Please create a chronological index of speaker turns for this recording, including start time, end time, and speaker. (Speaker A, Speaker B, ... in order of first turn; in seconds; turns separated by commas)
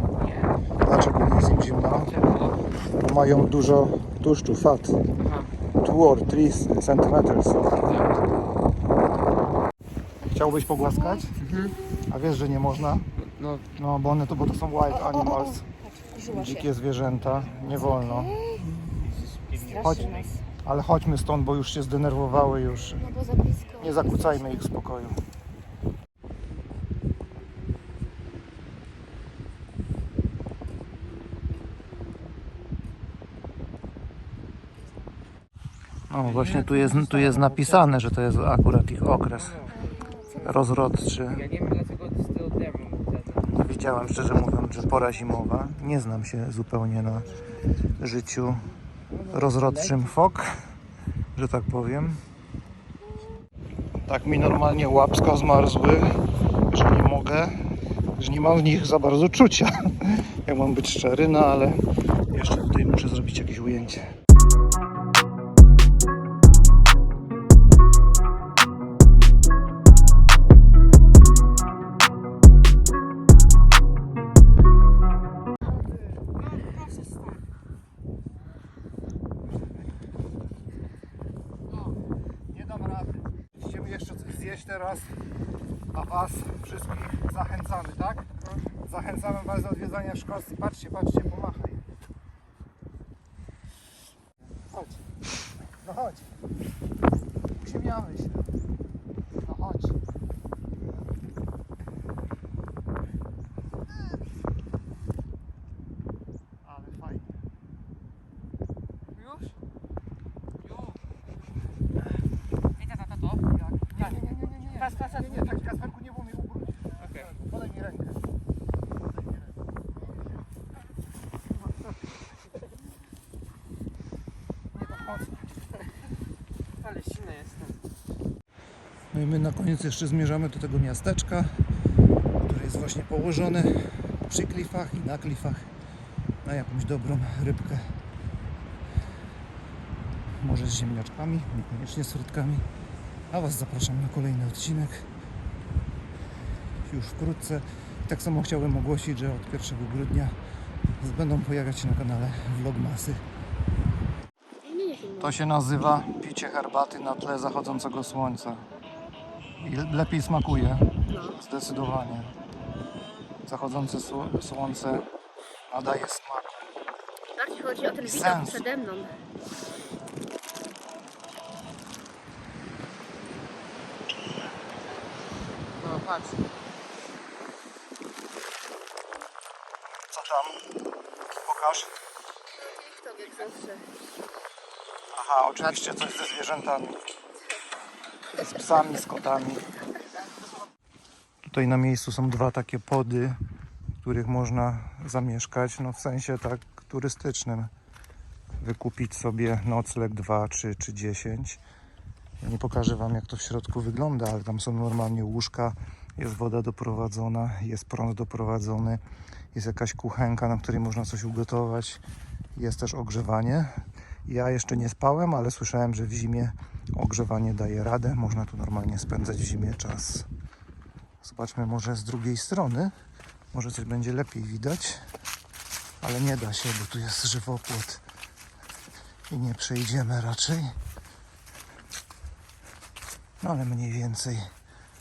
Speaker A: 0.8-2.1, Speaker B: 1.8-2.5, Speaker A: 2.9-5.0, Speaker B: 5.2-5.5, Speaker A: 5.8-7.9, Speaker B: 7.8-8.1, Speaker A: 10.3-11.3, Speaker B: 11.4-11.8, Speaker A: 11.9-13.1, Speaker B: 13.2-13.7, Speaker A: 13.8-15.7, Speaker C: 16.0-16.6, Speaker A: 16.2-18.4, Speaker C: 19.6-20.3, Speaker A: 19.6-23.2, Speaker C: 23.1-24.2, Speaker A: 23.7-25.2, Speaker A: 36.1-39.7, Speaker A: 40.4-41.5, Speaker B: 41.3-43.5, Speaker A: 43.5-47.3, Speaker A: 48.0-48.7, Speaker A: 49.2-50.5, Speaker A: 51.4-52.2, Speaker A: 54.1-56.2, Speaker A: 56.7-57.6, Speaker A: 58.2-64.0, Speaker A: 82.5-85.1, Speaker A: 85.9-88.3, Speaker A: 88.8-91.8, Speaker A: 95.8-96.3, Speaker A: 97.6-98.5, Speaker A: 99.4-100.0, Speaker A: 106.6-107.4, Speaker A: 113.9-118.2, Speaker A: 125.0-125.2, Speaker B: 126.8-127.7, Speaker A: 129.1-131.6, Speaker A: 132.4-135.7, Speaker A: 136.4-137.9, Speaker A: 140.4-142.7, Speaker A: 143.3-145.1, Speaker A: 146.8-150.4, Speaker A: 151.0-153.2, Speaker C: 154.6-155.3, Speaker A: 155.2-158.6, Speaker A: 159.6-162.3, Speaker C: 161.1-161.4, Speaker A: 163.5-165.1, Speaker A: 165.7-166.6, Speaker C: 167.4-169.2, Speaker A: 168.0-168.7, Speaker B: 175.8-176.4, Speaker A: 180.1-180.6, Speaker A: 181.4-181.9, Speaker C: 182.8-183.8, Speaker A: 185.1-187.0, Speaker A: 188.4-189.6, Speaker A: 191.4-193.4, Speaker A: 194.0-197.7, Speaker A: 198.6-201.6, Speaker A: 202.4-209.0, Speaker A: 209.5-212.0, Speaker A: 212.6-220.3, Speaker A: 221.2-222.9, Speaker A: 223.5-225.0, Speaker A: 226.0-228.0, Speaker A: 229.3-230.7, Speaker A: 233.4-234.5